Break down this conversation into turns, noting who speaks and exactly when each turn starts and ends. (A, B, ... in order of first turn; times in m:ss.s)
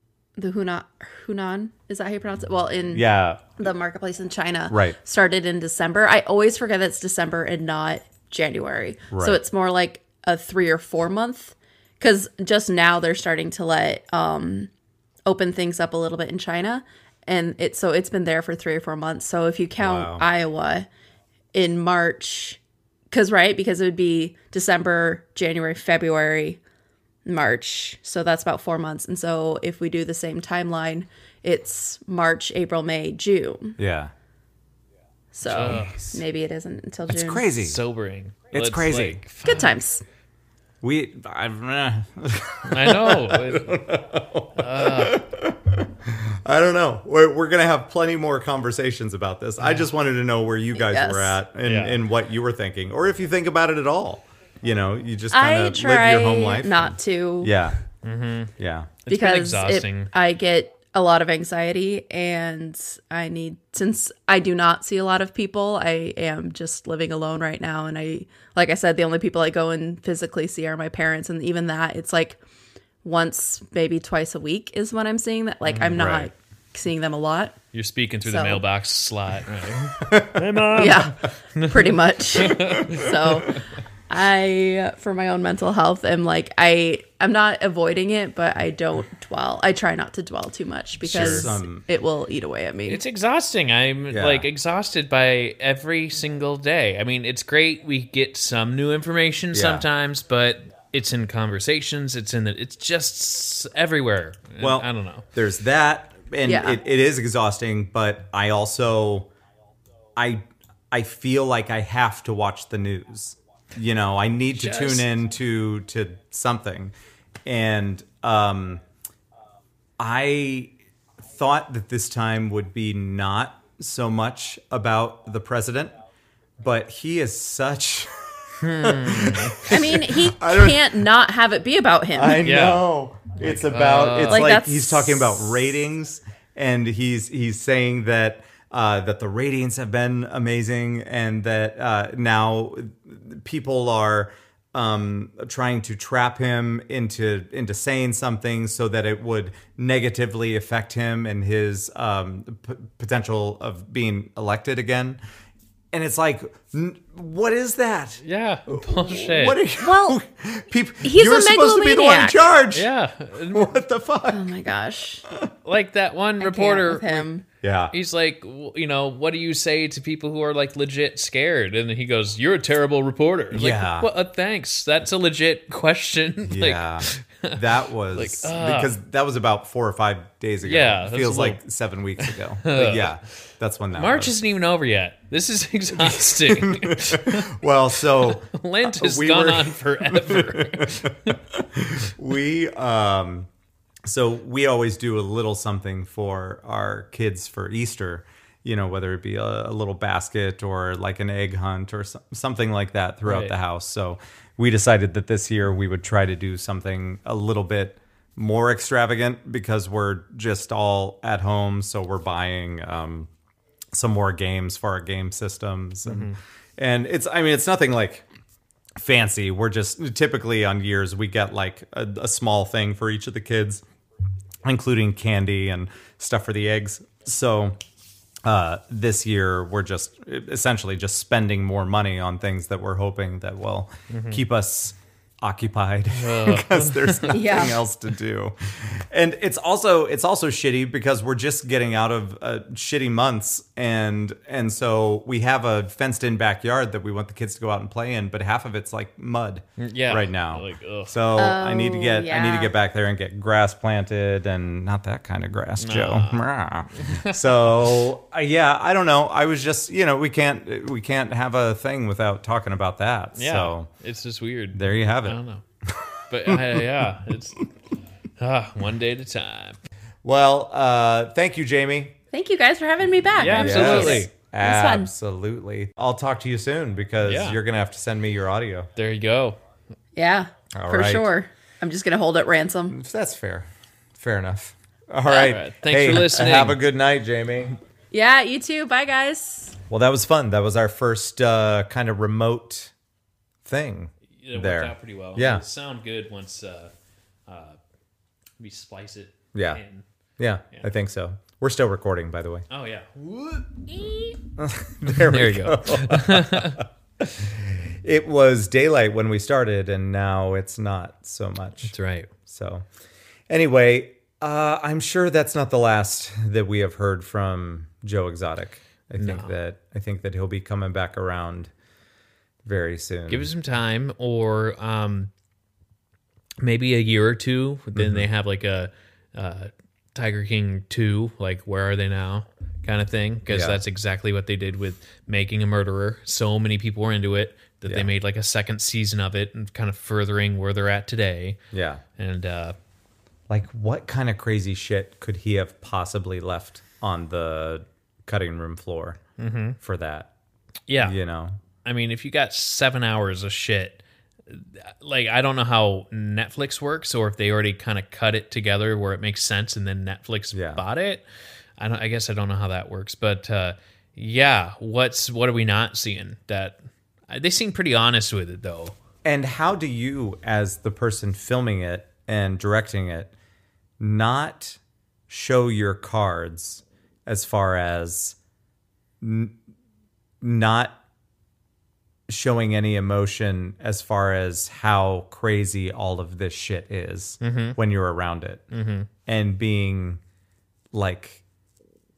0:00.4-0:03.1 A
0:02.9-0:03.4 B
0:03.6-0:14.7 A
0:04.7-0:05.0 B
0:09.1-0:09.4 B
0:15.3-0:20.9 A
0:19.8-0:20.2 B
0:21.5-0:22.6 A
0:23.1-0:26.6 A
0:27.2-0:33.8 A
0:33.8-0:34.1 B
0:35.3-0:37.5 A
0:35.4-0:36.2 C
0:37.1-0:37.8 B
0:37.6-0:39.7 C
0:38.5-0:39.2 B
0:39.4-0:40.0 A
0:40.8-0:57.8 B
0:42.7-0:43.8 C
0:44.6-0:45.2 C
0:50.8-0:51.4 A
0:51.6-0:52.0 C
0:55.3-0:57.5 A
0:58.0-0:58.5 C
0:58.6-0:58.9 B
0:59.0-1:00.1 C
0:59.1-1:12.4 A
1:13.0-1:17.6 A
1:15.7-1:15.9 C
1:16.0-1:16.3 B
1:17.7-1:23.1 C
1:18.2-1:18.6 A
1:20.0-1:20.5 B
1:20.8-1:33.0 A
1:31.0-1:31.8 B
1:31.2-1:31.5 C
1:32.9-1:45.2 C
1:34.1-1:34.5 B
1:39.5-1:39.9 B
1:44.6-1:49.3 B
1:46.4-1:46.8 A
1:50.2-1:56.9 B
1:54.6-1:55.1 C
1:57.5-1:58.8 B
2:00.0-2:00.7 B
2:01.2-2:06.0 B
2:06.6-2:11.1 B
2:08.6-2:09.7 C
2:09.7-2:12.4 A
2:12.1-2:35.2 B
2:12.4-2:12.8 C
2:13.4-2:14.5 C
2:14.3-2:15.5 A
2:35.9-2:42.9 B
2:38.2-2:39.6 C
2:39.8-2:40.2 A
2:41.0-2:42.4 A
2:42.7-2:43.8 C
2:43.5-2:44.6 B
2:44.3-2:45.2 A
2:45.6-2:47.3 C
2:46.4-2:47.4 A
2:47.6-2:47.9 B
2:47.9-2:59.0 C
2:53.5-2:54.1 B
2:56.4-3:04.4 B
3:00.6-3:01.6 C
3:02.2-3:03.2 C
3:03.9-3:07.6 C
3:06.0-3:13.5 B
3:08.1-3:11.4 C
3:14.1-3:33.3 B
3:23.3-3:23.5 C
3:33.9-3:38.3 B
3:36.1-3:36.4 C
3:39.0-3:43.8 B
3:44.6-3:47.8 B
3:48.4-4:23.9 B
3:54.1-3:54.4 C
3:56.1-3:57.6 C
3:57.3-3:57.8 A
4:09.8-4:11.2 C
4:11.4-4:12.7 A
4:15.8-4:17.9 C
4:23.4-4:25.6 C
4:24.7-4:27.3 B
4:26.3-4:27.7 C
4:28.4-4:29.8 C
4:30.2-4:32.2 B
4:32.3-4:35.1 A
4:33.4-4:34.3 C
4:33.5-4:38.9 B
4:37.2-4:37.6 C
4:39.0-4:39.6 C
4:40.2-4:43.0 A
4:40.7-4:41.3 B
4:42.9-4:47.8 B
4:45.3-4:46.8 C
4:48.1-4:49.8 A
4:49.9-4:52.9 B
4:53.6-4:55.6 B
4:54.4-4:56.9 C
4:57.5-4:57.8 C
4:58.6-5:00.0 C
4:59.6-4:59.8 B
5:00.4-5:02.7 B
5:02.7-5:04.4 C
5:04.6-5:12.0 B
5:05.1-5:06.8 C
5:11.9-5:12.3 C
5:12.5-5:12.9 B
5:13.5-5:21.7 B
5:19.2-5:19.5 C
5:22.6-5:23.5 B
5:23.3-5:25.3 C
5:26.6-5:41.6 C
5:27.9-5:28.3 B
5:33.5-5:33.8 B
5:37.8-5:38.1 B
5:41.7-5:42.0 B
5:42.2-5:42.8 C
5:43.5-5:49.2 B
5:49.4-5:49.8 C
5:49.8-5:50.3 B
5:50.9-5:51.2 C
5:51.0-5:51.6 B
5:51.8-6:01.2 C
6:00.5-6:00.8 B
6:01.8-6:06.8 C
6:07.3-6:09.0 C
6:09.2-6:13.3 B
6:14.0-6:18.4 B
6:19.2-6:19.6 B
6:20.4-6:21.0 B
6:22.3-6:28.6 B
6:27.4-6:27.8 C
6:28.7-6:29.1 C
6:29.3-6:30.2 B
6:30.9-6:31.4 B